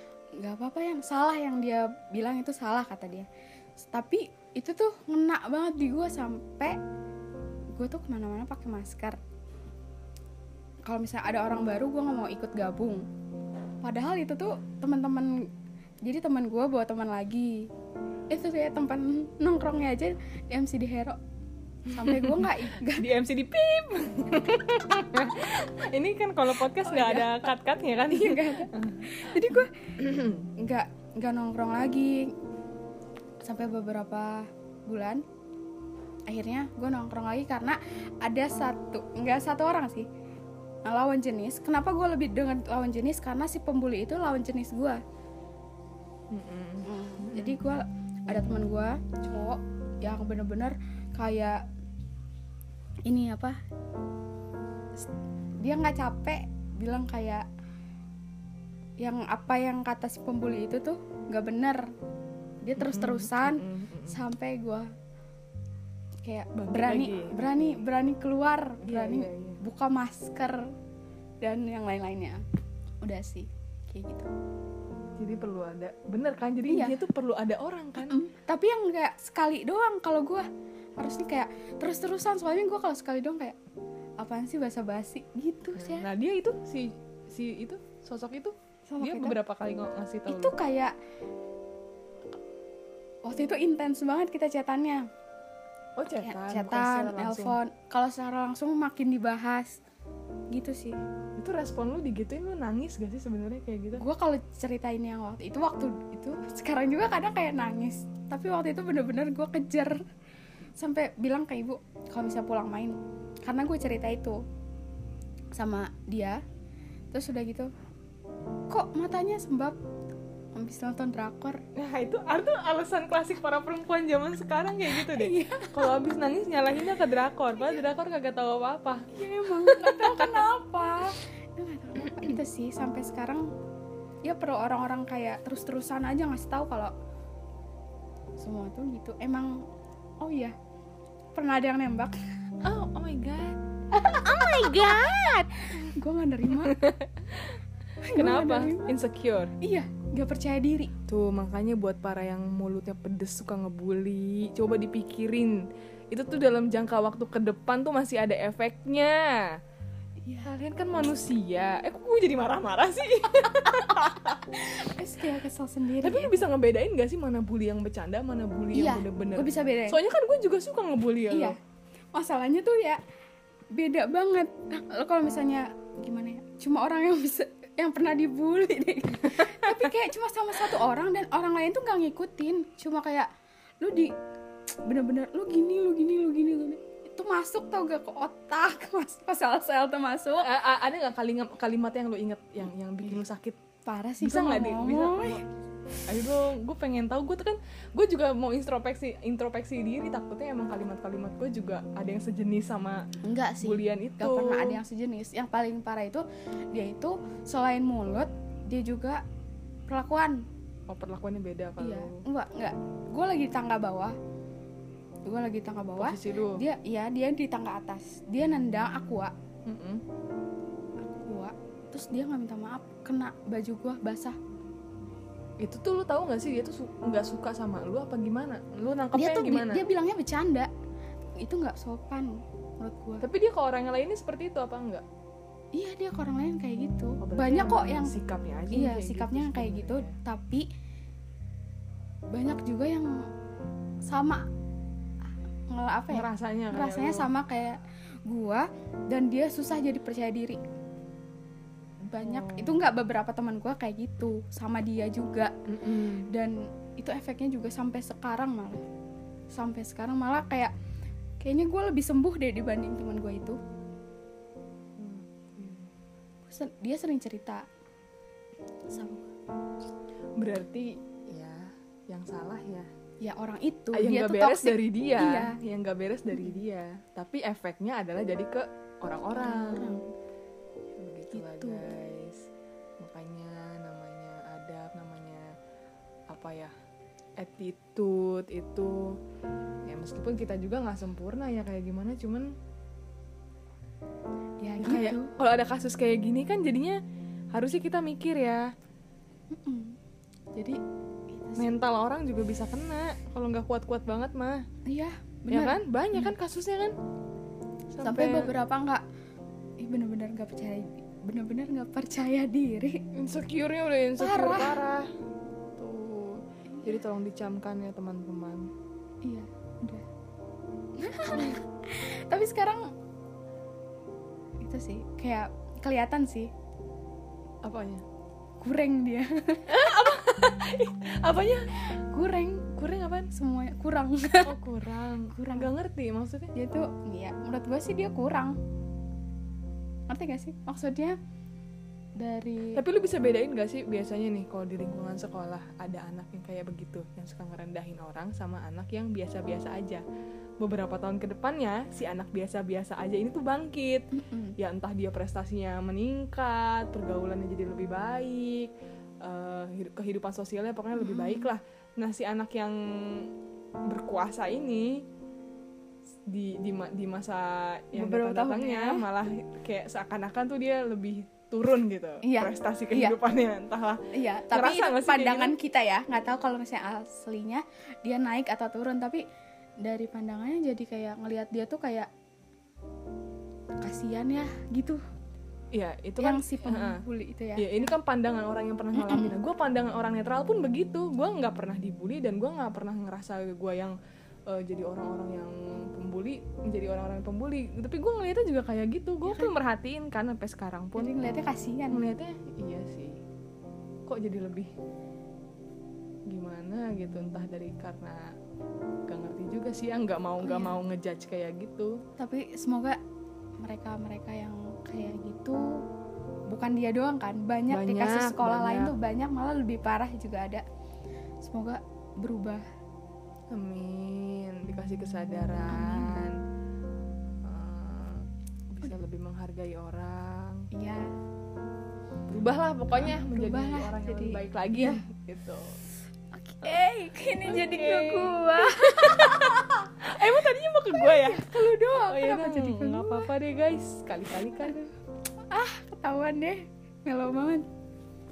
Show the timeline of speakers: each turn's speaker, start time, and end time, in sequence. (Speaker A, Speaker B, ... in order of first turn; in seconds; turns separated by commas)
Speaker A: 0.4-3.3, Speaker A: 3.8-6.8, Speaker A: 7.8-9.2, Speaker A: 10.8-13.0, Speaker A: 13.8-15.3, Speaker A: 16.0-17.6, Speaker A: 18.3-21.2, Speaker B: 21.9-30.5, Speaker A: 21.9-23.1, Speaker A: 26.6-27.5, Speaker A: 28.1-29.9, Speaker A: 30.6-32.3, Speaker A: 33.4-35.2, Speaker A: 36.3-40.0, Speaker A: 40.9-45.0, Speaker B: 46.3-47.6, Speaker A: 46.8-51.6, Speaker A: 53.1-53.6, Speaker A: 55.6-57.4, Speaker A: 59.0-61.8, Speaker A: 62.6-64.8, Speaker B: 62.8-64.2, Speaker A: 66.2-70.6, Speaker B: 66.5-67.8, Speaker B: 68.8-69.6, Speaker A: 71.4-72.4, Speaker A: 73.0-74.3, Speaker B: 75.2-78.2, Speaker A: 76.7-77.0, Speaker A: 78.0-80.5, Speaker A: 81.0-83.5, Speaker A: 84.2-86.1, Speaker B: 85.8-90.5, Speaker A: 88.9-89.3, Speaker A: 90.3-90.9, Speaker A: 93.2-95.0, Speaker B: 96.0-97.6, Speaker A: 96.1-99.8, Speaker A: 100.5-101.0, Speaker B: 101.4-104.0, Speaker A: 104.0-110.0, Speaker A: 110.8-114.4, Speaker A: 115.5-116.4, Speaker A: 117.1-117.7, Speaker A: 118.7-119.8, Speaker A: 120.5-121.6, Speaker B: 121.8-131.0, Speaker A: 124.9-125.9, Speaker A: 129.1-133.5, Speaker B: 132.0-132.4, Speaker A: 134.2-136.9, Speaker A: 138.4-139.6, Speaker A: 140.2-140.5, Speaker A: 141.3-142.2, Speaker B: 142.6-145.8, Speaker A: 143.9-146.8, Speaker B: 146.6-147.6, Speaker A: 148.0-148.9, Speaker B: 148.1-149.5, Speaker A: 149.6-150.9, Speaker B: 151.1-159.4, Speaker A: 160.2-160.5, Speaker B: 160.4-164.4, Speaker A: 164.5-166.4, Speaker B: 166.0-171.5, Speaker A: 168.7-170.0, Speaker A: 171.3-171.6, Speaker A: 172.1-173.0, Speaker A: 173.7-183.3, Speaker B: 179.3-179.8, Speaker A: 183.8-184.1, Speaker A: 184.8-190.5, Speaker B: 190.4-193.6, Speaker A: 193.8-195.4, Speaker B: 194.2-195.4, Speaker B: 196.1-203.0, Speaker A: 203.2-209.2, Speaker B: 203.6-204.8, Speaker A: 209.9-210.4, Speaker B: 210.9-212.2, Speaker A: 211.8-214.1, Speaker A: 215.3-219.3, Speaker B: 216.0-216.6, Speaker B: 219.7-220.0, Speaker A: 221.1-224.3, Speaker B: 225.6-229.8, Speaker A: 229.1-230.7, Speaker A: 231.4-232.3, Speaker A: 232.8-233.2, Speaker B: 233.2-235.0, Speaker A: 235.7-238.1, Speaker B: 237.2-240.2, Speaker A: 238.7-240.7, Speaker A: 242.3-243.1, Speaker A: 244.1-244.4, Speaker A: 245.7-250.6, Speaker B: 246.1-247.3, Speaker A: 252.1-255.5, Speaker B: 252.2-252.8, Speaker B: 255.7-256.3, Speaker A: 256.3-258.8, Speaker A: 259.5-260.7, Speaker A: 261.4-263.6, Speaker B: 265.0-265.9, Speaker A: 266.4-267.6, Speaker A: 268.9-269.3, Speaker B: 270.4-272.9, Speaker A: 273.2-275.6, Speaker B: 273.9-280.1, Speaker A: 279.3-280.0, Speaker B: 281.0-282.4, Speaker A: 281.3-281.9, Speaker B: 283.0-285.5, Speaker B: 286.3-286.7, Speaker B: 287.4-289.1, Speaker B: 289.9-292.5, Speaker A: 294.6-295.3, Speaker B: 294.8-297.0, Speaker B: 297.5-298.7, Speaker A: 299.5-300.0, Speaker A: 301.3-301.7, Speaker B: 301.6-304.6, Speaker A: 304.9-306.3, Speaker B: 305.5-306.9, Speaker B: 307.9-308.5, Speaker A: 308.0-309.0, Speaker A: 309.8-313.0, Speaker B: 313.1-315.1, Speaker A: 314.2-314.8, Speaker B: 315.8-318.7, Speaker A: 319.2-320.0, Speaker A: 321.0-322.9, Speaker A: 324.6-326.5, Speaker B: 327.6-328.0, Speaker A: 328.6-329.8, Speaker B: 329.7-331.7, Speaker A: 331.8-332.7, Speaker B: 332.7-333.3, Speaker A: 333.3-334.6, Speaker B: 334.4-336.5, Speaker A: 335.3-335.7, Speaker A: 336.5-338.6, Speaker A: 340.1-341.1, Speaker A: 342.2-342.8, Speaker B: 342.7-350.0, Speaker B: 350.6-358.7, Speaker A: 354.1-354.6, Speaker B: 359.2-363.3, Speaker A: 360.9-361.5, Speaker B: 363.9-365.0, Speaker B: 366.3-375.6, Speaker A: 367.9-369.0, Speaker A: 372.2-373.2, Speaker A: 374.1-379.2, Speaker A: 379.8-382.1, Speaker A: 383.8-385.0, Speaker B: 385.7-387.0, Speaker A: 386.2-387.9, Speaker B: 387.6-393.9, Speaker A: 388.9-389.4, Speaker B: 394.5-401.1, Speaker A: 399.2-399.5, Speaker A: 401.0-402.0, Speaker B: 401.9-403.2, Speaker B: 404.1-404.7, Speaker B: 406.3-408.2, Speaker B: 409.1-411.9, Speaker A: 410.4-410.8, Speaker A: 412.2-413.0, Speaker A: 413.6-415.6, Speaker A: 416.5-420.6, Speaker B: 417.7-418.9, Speaker A: 421.4-422.6, Speaker B: 423.5-426.4, Speaker A: 425.7-426.2, Speaker B: 427.4-430.7, Speaker A: 430.7-431.1, Speaker B: 432.3-435.8, Speaker A: 432.9-435.0, Speaker A: 436.3-439.5, Speaker B: 437.4-444.8, Speaker A: 440.9-443.3, Speaker A: 444.6-444.9, Speaker A: 445.5-447.6